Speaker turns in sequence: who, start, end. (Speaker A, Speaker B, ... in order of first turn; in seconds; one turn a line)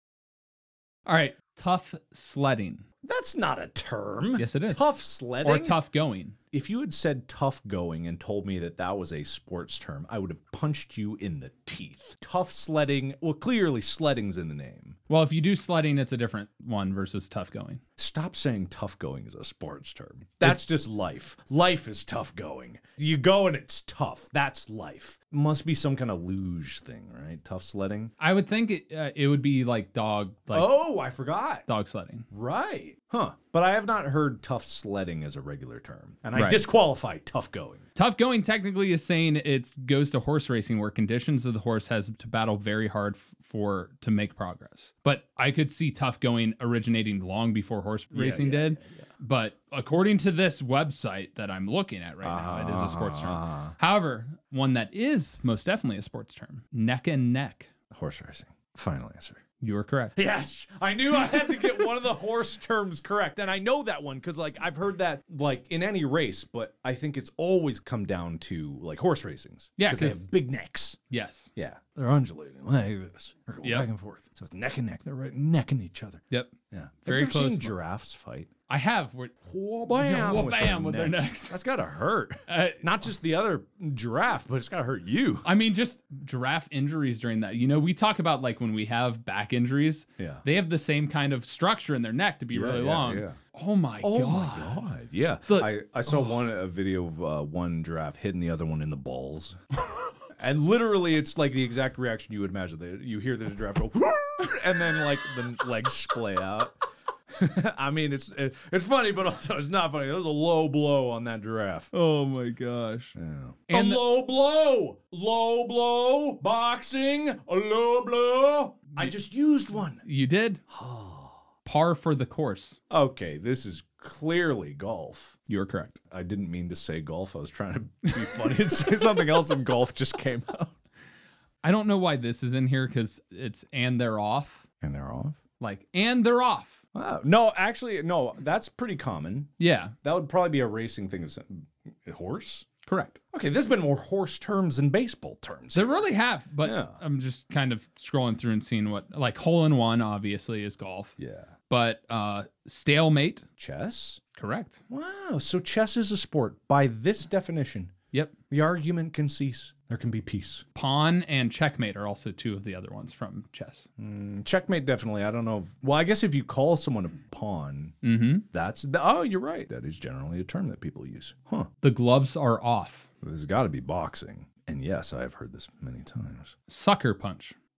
Speaker A: 1.1-2.9
Speaker B: 3.0-5.8
Speaker A: 4.4-4.8
Speaker A: 5.4-6.4
Speaker B: 6.5-15.0
Speaker A: 15.1-17.8
Speaker B: 18.0-28.1
Speaker A: 28.2-30.7
Speaker B: 30.5-31.6
Speaker A: 31.7-32.3
Speaker B: 32.3-37.9
Speaker A: 36.4-36.6
Speaker A: 38.0-57.7
Speaker B: 48.1-49.1
Speaker B: 52.2-53.8
Speaker B: 57.9-59.4
Speaker A: 59.6-60.1
Speaker B: 60.1-71.0
Speaker A: 69.8-70.3
Speaker A: 71.1-71.5
Speaker B: 71.6-78.5
Speaker A: 73.6-73.9
Speaker A: 77.1-77.8
Speaker A: 78.7-79.3
Speaker B: 79.4-85.5
Speaker A: 79.9-81.6
Speaker A: 82.5-82.8
Speaker A: 85.5-94.8
Speaker B: 90.2-90.4
Speaker B: 92.5-93.4
Speaker B: 94.0-99.6
Speaker A: 95.5-96.2
Speaker B: 100.3-106.8
Speaker B: 107.3-111.9
Speaker A: 111.9-113.2
Speaker B: 113.2-120.0
Speaker A: 113.7-114.0
Speaker A: 120.0-120.6
Speaker B: 120.7-121.4
Speaker A: 121.7-122.8
Speaker B: 122.9-125.4
Speaker A: 125.5-126.0
Speaker B: 126.1-130.7
Speaker A: 131.6-134.7
Speaker B: 134.8-135.4
Speaker A: 135.6-136.8
Speaker B: 136.9-142.7
Speaker A: 139.6-139.9
Speaker A: 142.9-143.2
Speaker B: 143.3-147.0
Speaker A: 145.7-151.2
Speaker B: 151.2-151.5
Speaker A: 151.7-153.4
Speaker B: 153.6-154.2
Speaker A: 154.4-154.8
Speaker B: 154.9-157.9
Speaker B: 158.5-160.7
Speaker A: 160.8-163.9
Speaker B: 164.0-168.0
Speaker A: 168.0-168.4
Speaker B: 168.5-171.7
Speaker A: 171.8-173.1
Speaker B: 173.2-176.6
Speaker A: 176.7-177.6